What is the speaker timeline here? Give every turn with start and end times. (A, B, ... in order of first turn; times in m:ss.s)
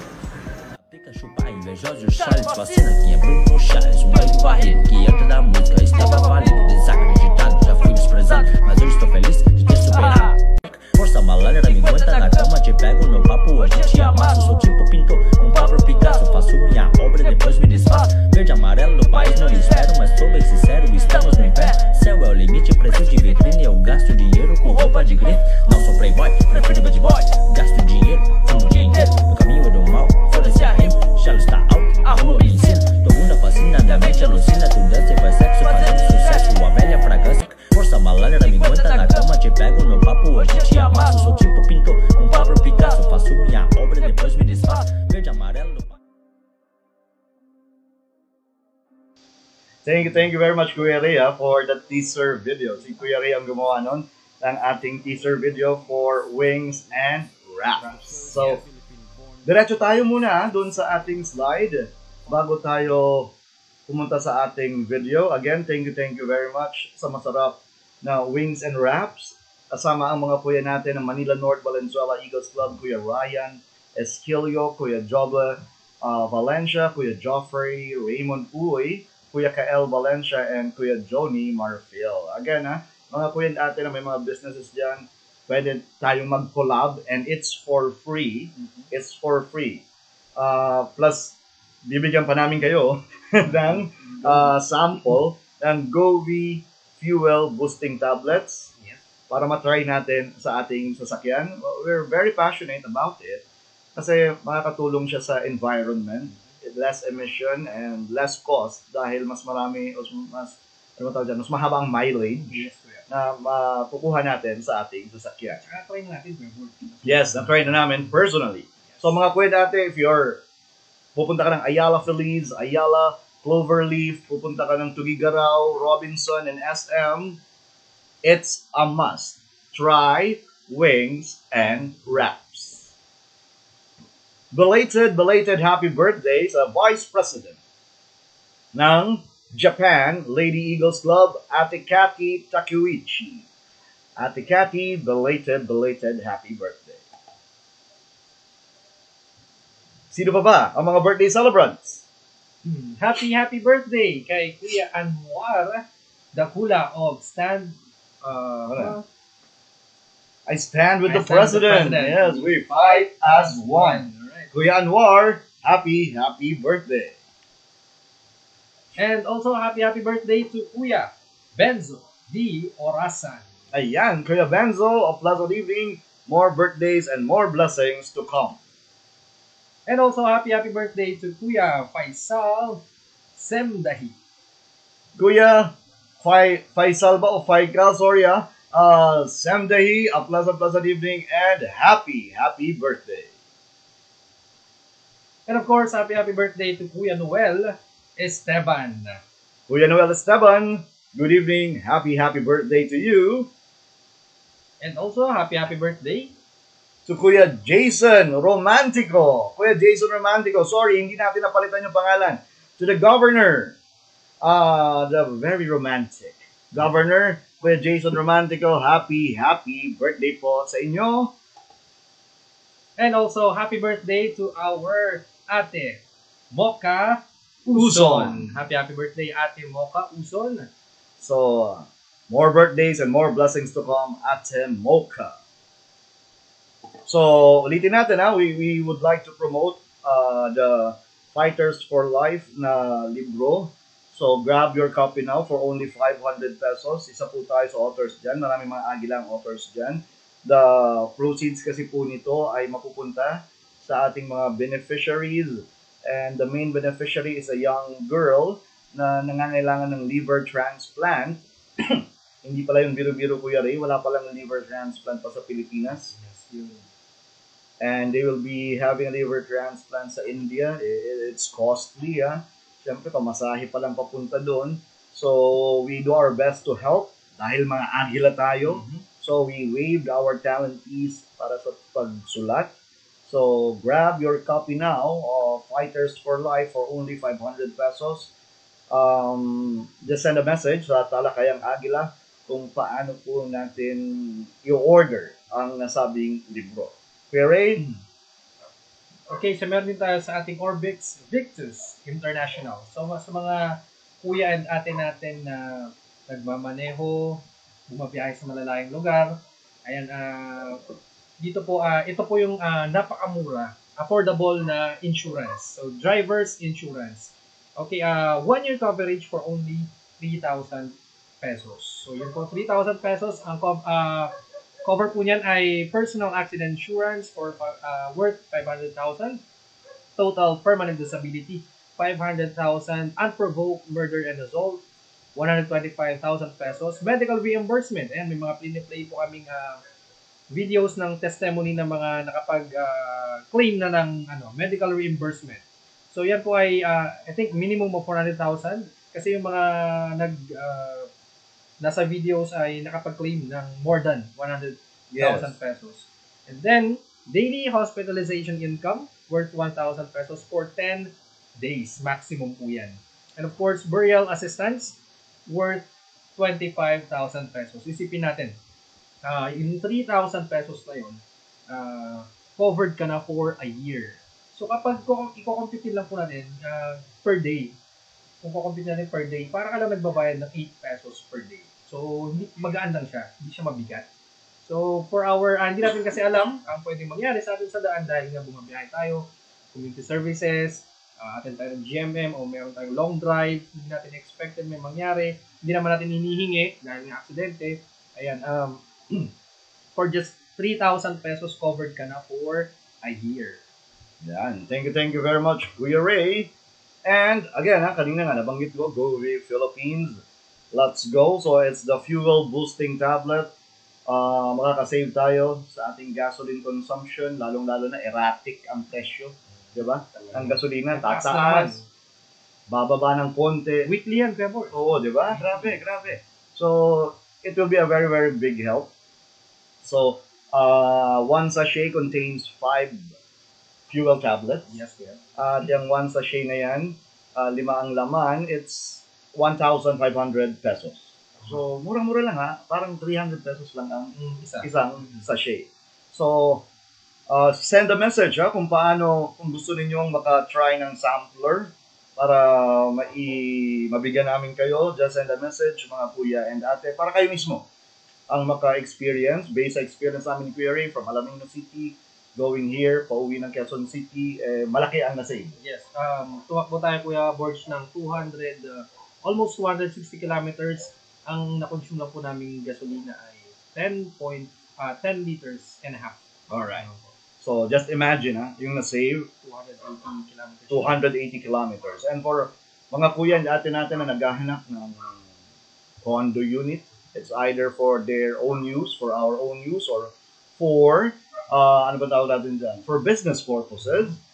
0:00.9-0:46.0 A
0:49.8-0:58.6 B
0:57.8-0:58.6 C
0:59.4-1:03.3 B
1:03.9-1:29.8 B
1:28.6-1:28.9 C
1:30.4-1:38.7 B
1:33.7-1:34.5 C
1:39.3-1:43.4 B
1:43.9-1:55.6 B
1:52.4-1:53.0 C
1:55.6-1:57.9 C
1:57.0-2:00.4 B
2:01.1-2:07.4 B
2:08.2-2:12.9 B
2:14.5-2:17.6 B
2:18.7-2:23.5 B
2:24.2-2:27.0 B
2:30.1-2:32.0 B
2:32.6-2:39.0 C
2:38.7-2:38.9 B
2:40.5-2:47.2 B
2:41.0-2:44.5 C
2:49.0-2:53.5 C
2:53.7-2:58.6 B
2:59.8-3:02.8 C
3:03.4-3:04.1 C
3:05.2-3:13.3 B
3:15.5-3:19.2 C
3:19.7-3:23.5 B
3:24.8-3:26.3 C
3:27.0-3:33.8 B
3:34.4-3:41.3 B
3:43.0-3:46.0 C
3:46.5-3:50.7 C
3:47.7-3:48.5 B
3:51.2-3:55.4 B
3:57.0-4:26.1 B
4:26.1-4:26.8 C
4:27.8-4:42.7 B
4:43.2-4:48.3 B
4:48.9-4:57.9 B
4:59.3-5:24.3 C
5:24.8-5:29.4 C
5:30.2-5:34.8 C
5:35.4-5:39.8 C
5:40.5-5:51.1 C
5:51.8-6:05.8 C
5:55.1-5:55.5 B
6:06.4-6:08.6 C
6:09.2-6:17.7 C
6:18.4-6:24.0 C
6:24.6-6:39.3 C
6:40.0-6:43.6 C
6:44.2-6:46.5 B
6:47.0-6:50.2 B
6:50.7-6:53.5 B
6:54.1-7:01.8 B
7:00.2-7:01.8 C
7:02.7-7:03.9 B
7:03.8-7:05.8 C
7:04.7-7:08.9 B
7:09.8-7:13.1 B
7:13.9-7:14.7 B
7:14.7-7:15.2 C
7:15.4-7:26.6 B
7:24.1-7:24.7 C
7:27.3-7:37.6 B
7:38.3-7:45.5 B
7:45.6-7:56.2 C
7:56.5-7:56.9 B
7:56.7-7:57.1 C
7:57.4-7:59.3 B
7:59.4-8:01.0 C
8:00.7-8:05.2 B
8:06.0-8:14.2 B